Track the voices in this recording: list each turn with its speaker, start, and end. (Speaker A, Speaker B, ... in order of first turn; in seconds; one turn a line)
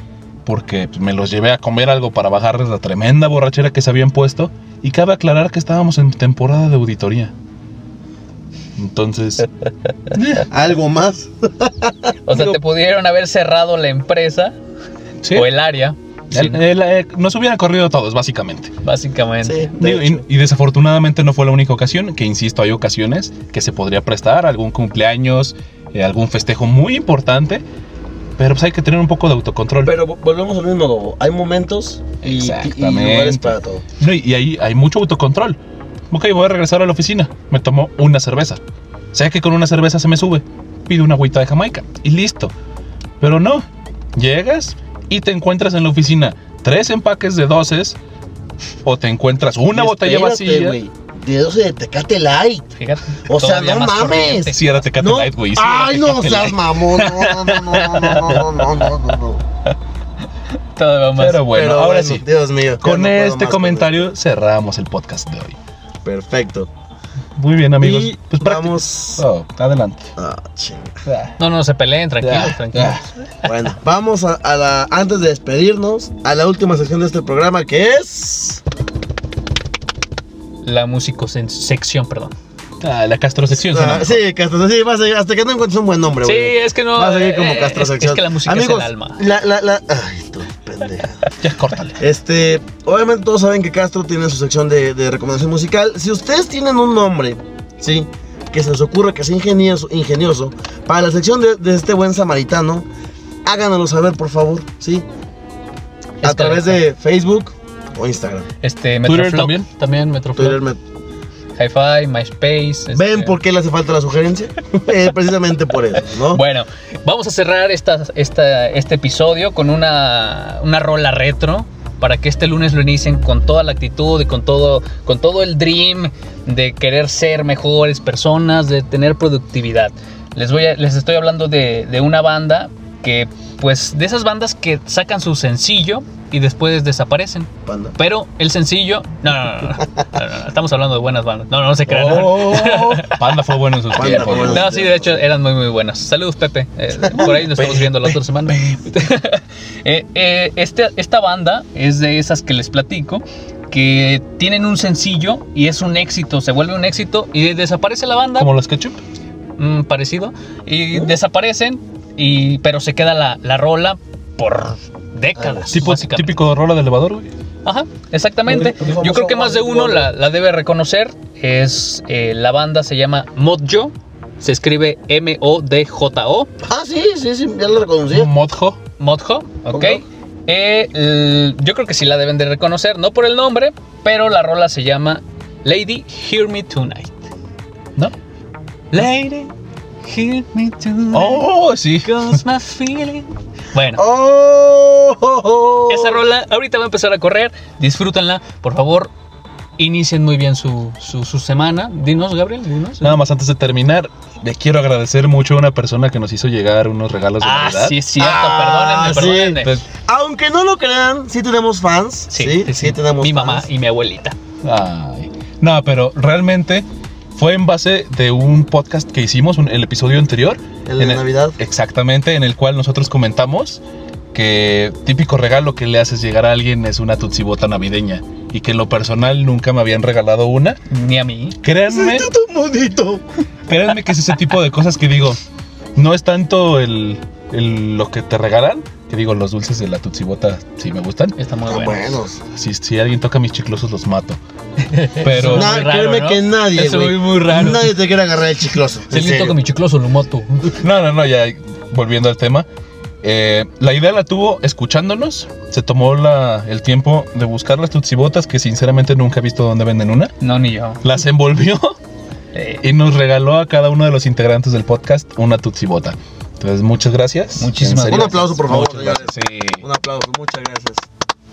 Speaker A: 0.5-7.3
Speaker A: 8.8-9.5
Speaker A: 10.1-10.5
Speaker B: 10.4-12.1
Speaker C: 12.2-14.6
Speaker A: 12.3-12.6
Speaker A: 15.2-15.5
Speaker C: 15.3-16.6
Speaker A: 16.3-18.7
Speaker C: 18.8-19.7
Speaker B: 19.4-20.2
Speaker A: 19.8-27.6
Speaker A: 28.4-29.9
Speaker B: 29.8-33.8
Speaker A: 32.2-35.6
Speaker A: 36.1-38.6
Speaker A: 39.1-42.5
Speaker A: 43.2-43.6
Speaker A: 44.1-48.0
Speaker A: 48.8-50.8
Speaker B: 49.7-52.7
Speaker C: 52.8-54.6
Speaker B: 53.2-59.4
Speaker A: 54.5-58.5
Speaker C: 60.7-61.4
Speaker A: 61.2-62.2
Speaker B: 61.5-64.0
Speaker A: 62.8-65.6
Speaker B: 66.0-66.7
Speaker A: 67.4-70.1
Speaker B: 67.8-69.2
Speaker B: 70.2-71.0
Speaker A: 71.0-71.3
Speaker C: 71.4-73.3
Speaker A: 72.2-73.0
Speaker B: 73.4-78.6
Speaker C: 80.6-82.3
Speaker A: 82.8-84.2
Speaker B: 83.6-91.2
Speaker C: 86.2-89.2
Speaker A: 91.4-92.0
Speaker B: 92.0-102.8
Speaker B: 103.4-105.0
Speaker C: 106.2-106.8
Speaker B: 106.2-108.5
Speaker C: 108.6-110.6
Speaker A: 109.0-109.7
Speaker B: 110.3-110.8
Speaker C: 111.5-113.4
Speaker B: 112.9-116.4
Speaker C: 116.2-143.2
Speaker B: 137.7-137.9
Speaker A: 141.9-144.7
Speaker B: 143.9-145.2
Speaker C: 143.9-158.5
Speaker B: 147.0-147.4
Speaker A: 147.1-148.8
Speaker A: 158.4-159.0
Speaker C: 159.6-166.4
Speaker B: 165.4-165.9
Speaker A: 165.7-167.3
Speaker C: 167.6-176.5
Speaker B: 168.4-170.1
Speaker B: 176.6-178.3
Speaker A: 178.1-178.8
Speaker C: 179.0-187.2
Speaker B: 179.7-180.0
Speaker C: 188.9-189.5
Speaker C: 190.0-191.5
Speaker A: 191.1-192.4
Speaker C: 192.0-194.0
Speaker B: 194.0-196.2
Speaker C: 195.9-199.1
Speaker C: 199.8-203.1
Speaker A: 203.0-208.0
Speaker C: 207.4-209.8
Speaker B: 208.2-213.7
Speaker C: 212.3-214.3
Speaker A: 214.6-216.8
Speaker A: 217.3-223.8
Speaker B: 220.8-221.6
Speaker A: 224.3-230.8
Speaker C: 230.9-231.6
Speaker A: 231.6-232.3
Speaker B: 231.9-233.2
Speaker A: 233.7-235.4
Speaker A: 235.9-241.3
Speaker C: 241.4-242.2
Speaker B: 241.7-242.4
Speaker A: 242.5-244.4
Speaker C: 244.8-247.9
Speaker A: 245.2-245.8
Speaker B: 245.4-249.6
Speaker C: 249.1-250.8
Speaker A: 250.8-252.7
Speaker A: 253.2-260.3
Speaker C: 260.4-261.0
Speaker A: 261.0-262.0
Speaker C: 262.5-262.8
Speaker A: 262.8-269.8
Speaker C: 267.6-268.6
Speaker B: 268.0-271.1